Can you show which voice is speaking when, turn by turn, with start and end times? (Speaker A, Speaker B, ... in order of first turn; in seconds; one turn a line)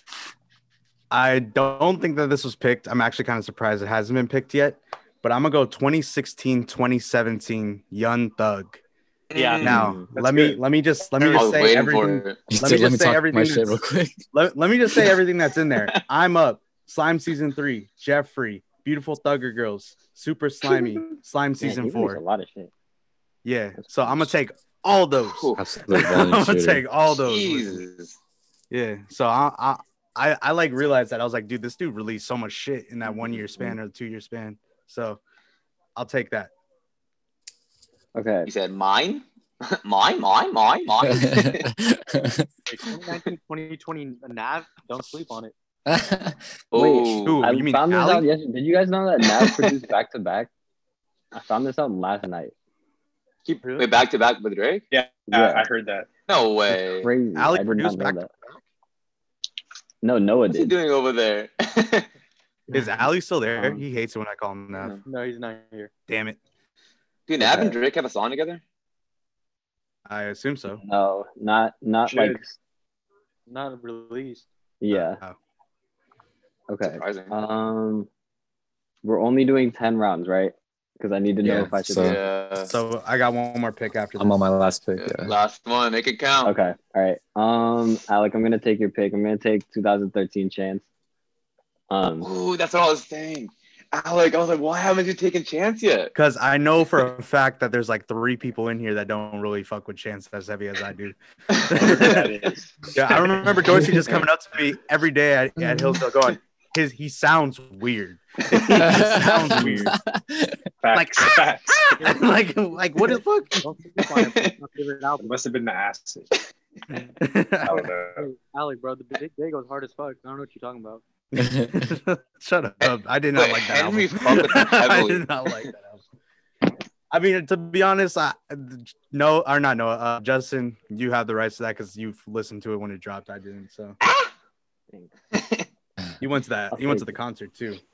Speaker A: 1.1-8.8
Speaker B: 9.3-9.9
Speaker C: 9.3-9.8
Speaker A: 9.6-13.8
Speaker D: 9.7-10.1
Speaker B: 11.2-12.5
Speaker E: 12.5-14.2
Speaker A: 14.3-22.2
Speaker D: 21.6-22.7
Speaker A: 23.4-27.8
Speaker D: 23.8-24.3
Speaker B: 25.3-25.6
Speaker E: 25.6-26.8
Speaker B: 27.1-28.2
Speaker A: 28.7-35.2
Speaker A: 36.0-36.5
Speaker D: 38.1-38.5
Speaker B: 38.5-41.7
Speaker E: 41.0-42.5
Speaker C: 42.7-45.5
Speaker E: 45.9-46.4
Speaker B: 46.7-47.4
Speaker D: 46.7-50.5
Speaker A: 47.2-48.3
Speaker D: 51.3-52.5
Speaker B: 53.4-54.8
Speaker F: 54.9-56.1
Speaker D: 55.3-55.6
Speaker B: 56.3-57.1
Speaker D: 56.7-58.3
Speaker A: 57.4-58.6
Speaker D: 60.0-60.7
Speaker B: 60.5-62.1
Speaker A: 62.7-65.0
Speaker D: 63.6-63.8
Speaker C: 65.0-65.9
Speaker A: 66.1-66.4
Speaker B: 67.3-68.6
Speaker D: 67.4-67.8
Speaker A: 70.1-70.8
Speaker D: 70.8-72.5
Speaker F: 72.0-72.4
Speaker C: 73.5-74.5
Speaker D: 74.8-75.2
Speaker A: 74.9-75.4
Speaker D: 76.7-78.1
Speaker B: 76.8-77.3
Speaker D: 79.0-82.2
Speaker E: 81.4-82.2
Speaker B: 82.0-82.7
Speaker A: 82.6-84.4
Speaker E: 84.2-85.3
Speaker B: 85.0-86.5
Speaker D: 86.4-90.8
Speaker D: 91.9-92.3
Speaker B: 92.2-96.1
Speaker A: 96.1-102.3
Speaker B: 101.5-102.2
Speaker F: 101.8-102.6
Speaker A: 102.9-109.9
Speaker E: 108.7-110.6
Speaker F: 109.1-109.9
Speaker F: 110.8-112.2
Speaker A: 110.9-113.6
Speaker C: 113.6-115.3
Speaker B: 114.0-114.5
Speaker F: 115.2-116.3
Speaker A: 117.2-117.9
Speaker F: 117.6-118.3
Speaker C: 118.2-121.0
Speaker A: 121.3-126.0
Speaker E: 121.4-121.8
Speaker B: 122.8-125.3
Speaker A: 127.1-134.0
Speaker B: 134.0-134.3
Speaker B: 135.3-135.7
Speaker A: 136.2-137.8
Speaker D: 136.7-137.2